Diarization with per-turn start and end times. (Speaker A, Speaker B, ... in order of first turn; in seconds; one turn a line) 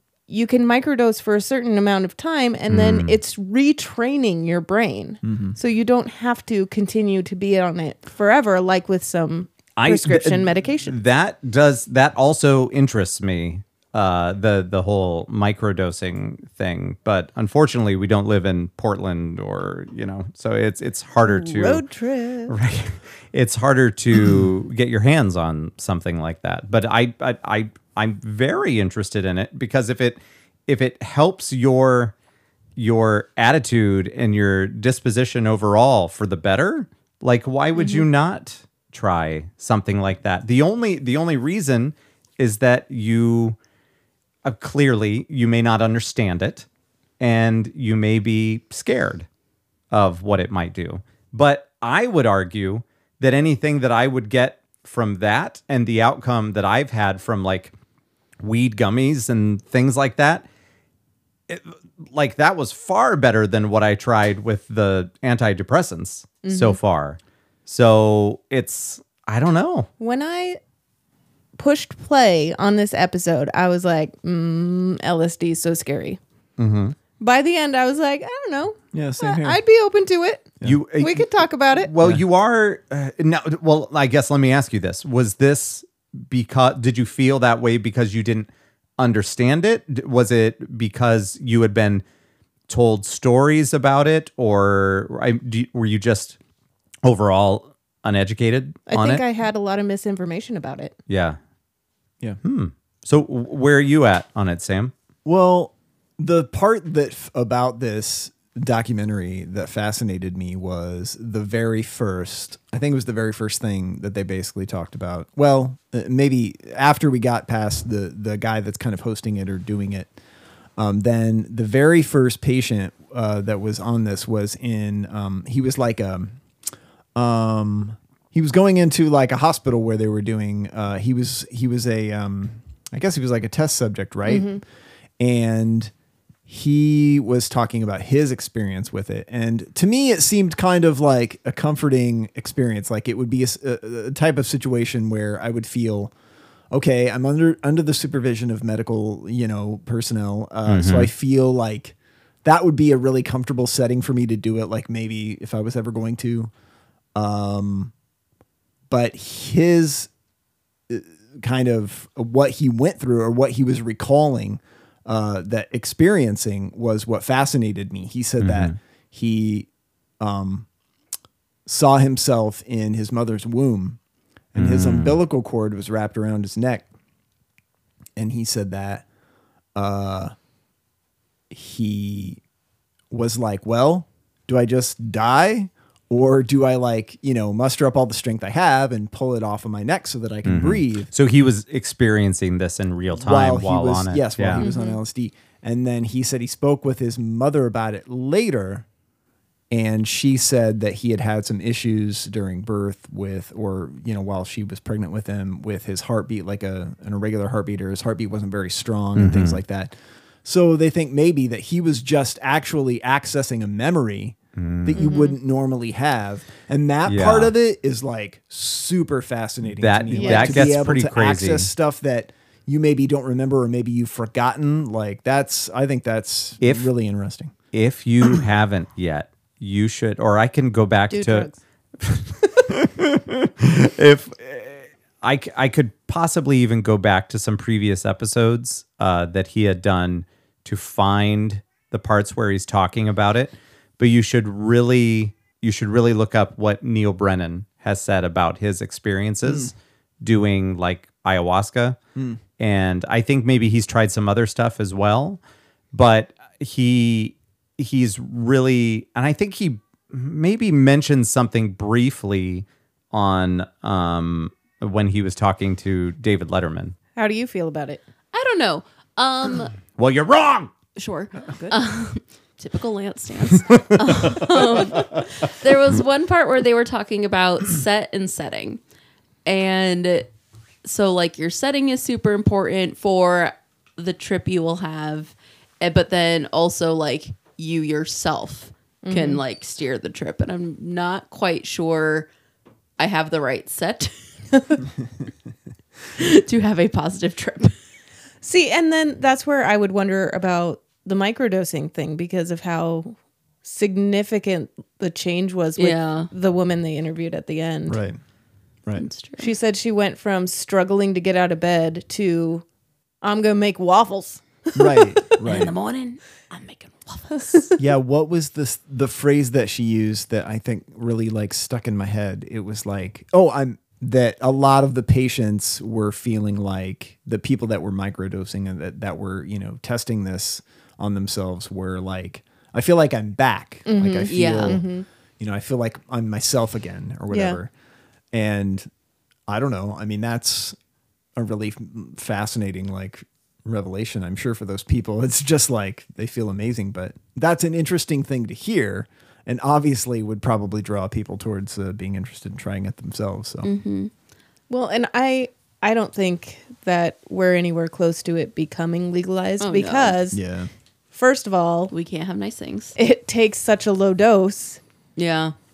Speaker A: 0.3-10.9
Speaker B: 2.7-3.2
Speaker C: 5.2-5.5
Speaker B: 9.8-21.8
Speaker A: 21.2-22.5
Speaker B: 22.5-32.1
Speaker B: 32.8-43.6
Speaker A: 37.7-38.0
Speaker B: 44.4-46.6
Speaker B: 47.2-49.2
Speaker B: 49.9-57.7
Speaker B: 58.4-60.4
Speaker B: 61.5-69.9
Speaker A: 66.4-66.8
Speaker A: 70.0-70.6
Speaker A: 71.6-76.2
Speaker B: 76.6-76.9
Speaker A: 77.2-81.9
Speaker C: 78.9-79.6
Speaker B: 80.6-92.0
Speaker B: 92.7-96.4
Speaker B: 97.0-99.2
Speaker A: 98.9-100.9
Speaker B: 101.1-101.4
Speaker B: 102.4-104.9
Speaker C: 105.2-120.1
Speaker C: 120.8-126.4
Speaker C: 127.1-134.6
Speaker A: 134.2-134.6
Speaker C: 135.2-135.9
Speaker C: 136.5-146.1
Speaker C: 146.7-156.5
Speaker B: 150.7-151.1
Speaker C: 157.1-157.9
Speaker C: 158.9-160.1
Speaker C: 160.9-169.7
Speaker B: 168.4-168.7
Speaker C: 170.2-170.7
Speaker C: 171.7-174.0
Speaker C: 174.5-176.8
Speaker B: 174.6-175.2
Speaker C: 178.2-179.0
Speaker C: 179.7-180.3
Speaker C: 181.5-182.4
Speaker C: 183.1-191.1
Speaker B: 190.4-194.7
Speaker C: 193.1-198.8
Speaker A: 194.6-195.0
Speaker C: 199.7-227.5
Speaker B: 209.2-209.6
Speaker B: 214.6-215.1
Speaker A: 214.9-215.4
Speaker B: 217.1-217.5
Speaker B: 219.8-221.7
Speaker A: 220.1-220.7
Speaker B: 226.6-226.9
Speaker B: 227.7-252.0
Speaker A: 231.1-231.6
Speaker C: 249.4-249.7
Speaker B: 252.6-255.4
Speaker B: 255.9-266.9
Speaker A: 267.1-268.0
Speaker D: 268.3-269.7
Speaker B: 269.9-270.7
Speaker D: 270.9-278.8
Speaker B: 274.3-275.1
Speaker D: 279.4-280.3
Speaker D: 280.8-292.3
Speaker A: 289.0-289.4
Speaker D: 293.0-294.1
Speaker D: 296.1-297.7
Speaker A: 298.4-308.0
Speaker D: 305.8-306.3
Speaker C: 307.9-308.2
Speaker D: 308.9-309.5
Speaker A: 309.4-312.6
Speaker A: 313.2-315.2
Speaker C: 314.7-315.7
Speaker D: 315.4-317.7
Speaker C: 317.8-337.7
Speaker A: 333.9-335.1
Speaker D: 334.3-334.8
Speaker A: 337.3-337.6
Speaker C: 338.3-338.9
Speaker C: 339.5-340.8
Speaker C: 341.4-353.7
Speaker D: 353.6-354.1
Speaker A: 354.7-360.4
Speaker D: 359.6-360.2
Speaker C: 360.3-360.7
Speaker A: 361.1-361.9
Speaker D: 361.9-362.9
Speaker A: 362.9-364.8
Speaker D: 365.1-365.5